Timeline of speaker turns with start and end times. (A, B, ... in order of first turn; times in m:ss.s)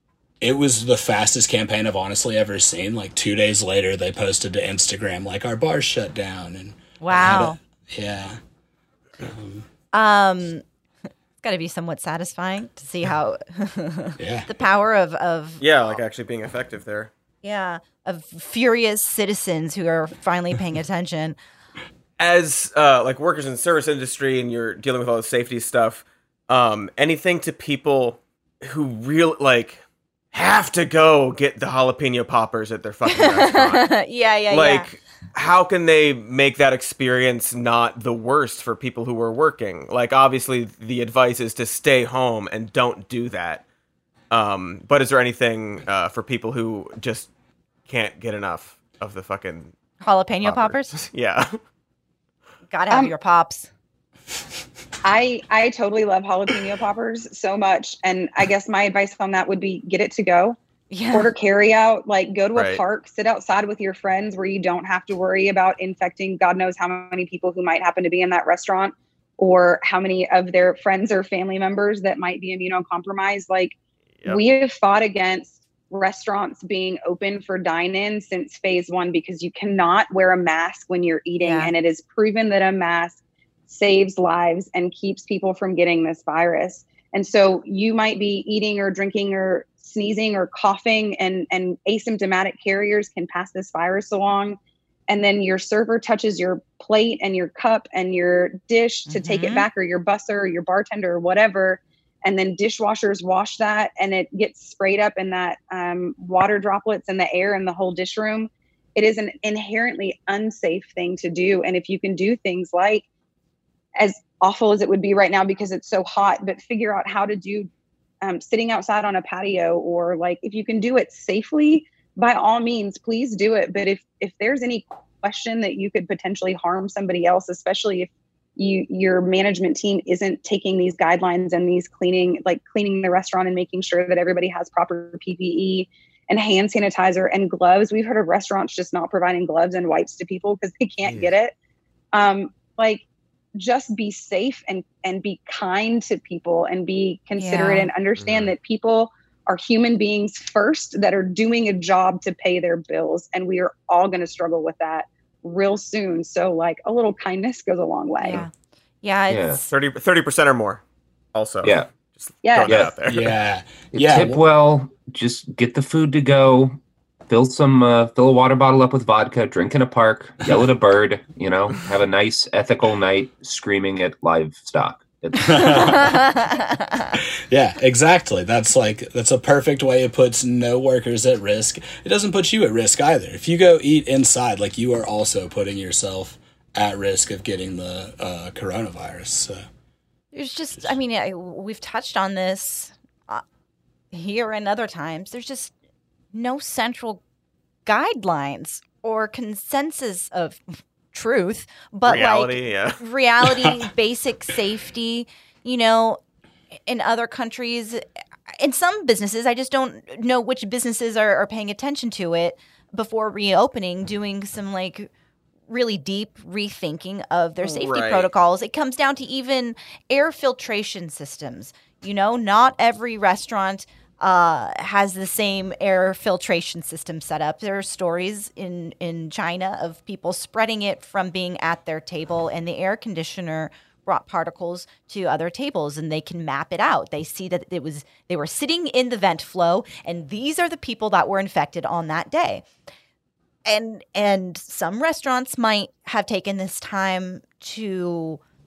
0:00.4-0:08.4 A
0:07.0-0:07.6 B
0:09.2-0:09.7 A
0:09.9-0:10.6 B
0:11.4-0:16.0 B
0:14.2-0:14.5 A
0:15.6-0:17.1 C
0:17.4-0:21.4 B
0:22.2-0:29.8 C
0:30.3-0:33.9 C
0:33.1-0:34.9 B
0:34.5-0:43.6 C
0:44.3-0:47.3 C
0:47.9-0:49.7 C
0:50.0-0:50.9 B
0:50.4-0:51.5 C
0:52.7-0:53.7 B
0:55.0-1:00.6 D
1:00.9-1:01.3 B
1:01.1-1:34.6 D
1:02.5-1:02.8 C
1:21.4-1:21.7 B
1:35.1-1:53.0 D
1:39.1-1:39.7 B
1:54.0-1:57.7 D
1:58.2-2:21.5 D
2:21.0-2:21.3 C
2:22.1-2:23.0 D
2:23.6-2:38.5 D
2:27.4-2:27.9 B
2:28.2-2:28.5 C
2:38.2-2:39.7 B
2:39.3-2:39.6 E
2:39.7-2:40.8 C
2:41.3-2:43.3 C
2:42.4-2:42.8 D
2:42.6-2:42.9 E
2:43.0-2:44.4 A
2:43.9-2:46.8 E
2:47.3-2:56.1 E
2:55.4-2:56.3 A
2:57.5-3:09.6 A
3:10.3-3:13.4 B
3:14.1-3:15.7 B
3:16.3-3:17.2 B
3:17.8-3:26.2 B
3:22.0-3:23.0 C
3:26.8-3:35.1 B
3:35.7-4:02.6 B
3:37.6-3:38.3 C
4:03.6-4:08.4 B